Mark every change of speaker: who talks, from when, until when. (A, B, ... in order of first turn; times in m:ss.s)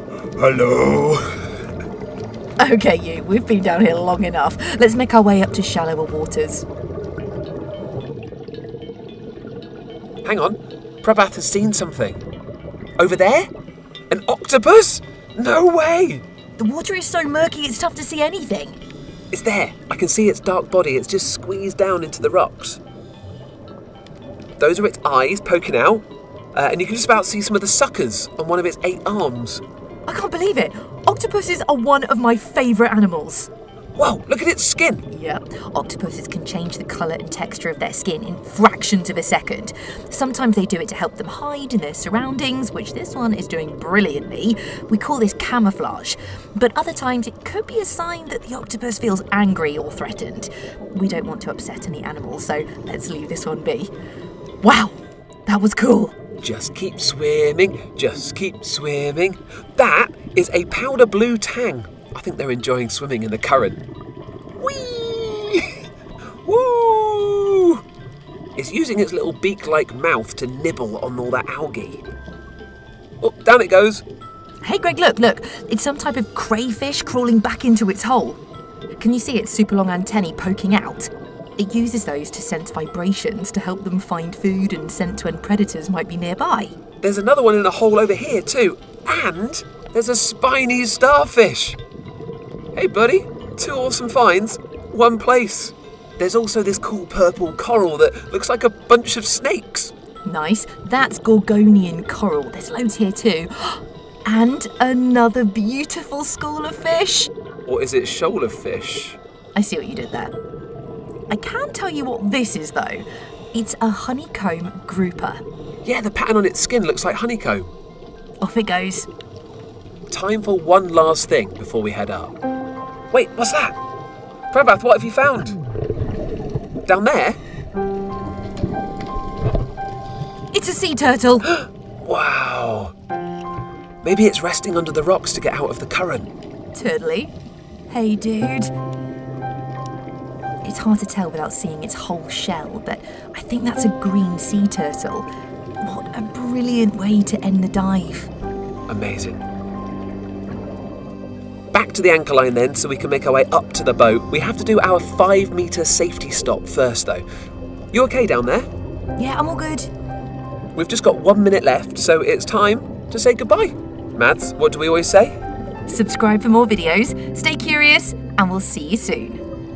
0:00.4-0:01.5 A
0:02.6-0:06.6 B
0:10.2-0:12.2 A
0:13.0-0:13.5 A
0:14.1-0:16.2 A
0:16.6-0:18.8 B
0:19.3-0:22.8 A
0:24.6-0:29.6 A
0:30.1-0:33.5 B
0:34.0-0:35.1 A
0:35.1-0:53.9 B
0:54.6-0:56.2 B
0:56.4-1:03.8 A
1:04.6-1:05.8 A
1:06.4-1:07.8 A
1:08.6-1:12.0 A
1:13.2-1:14.0 A
1:14.6-1:18.4 B
1:19.0-1:26.8 B
1:27.0-1:31.8 A
1:32.8-1:39.9 A
1:40.2-1:47.3 B
1:47.7-1:49.2 A
1:49.6-1:50.3 B
1:51.3-1:55.4 B
1:55.8-1:57.7 A
1:58.4-1:59.1 B
2:00.1-2:02.4 A
2:03.1-2:03.8 A
2:04.5-2:05.6 A
2:06.9-2:07.4 A
2:10.5-2:11.5 B
2:12.0-2:12.9 A
2:14.0-2:16.3 A
2:16.7-2:17.3 B
2:17.9-2:18.7 B
2:20.6-2:25.3 B
2:25.8-2:28.3 B
2:28.9-2:29.4 A
2:31.7-2:37.2 A
2:37.9-2:38.7 A
2:39.2-2:39.9 B
2:40.8-2:45.4 A
2:45.9-2:49.4 B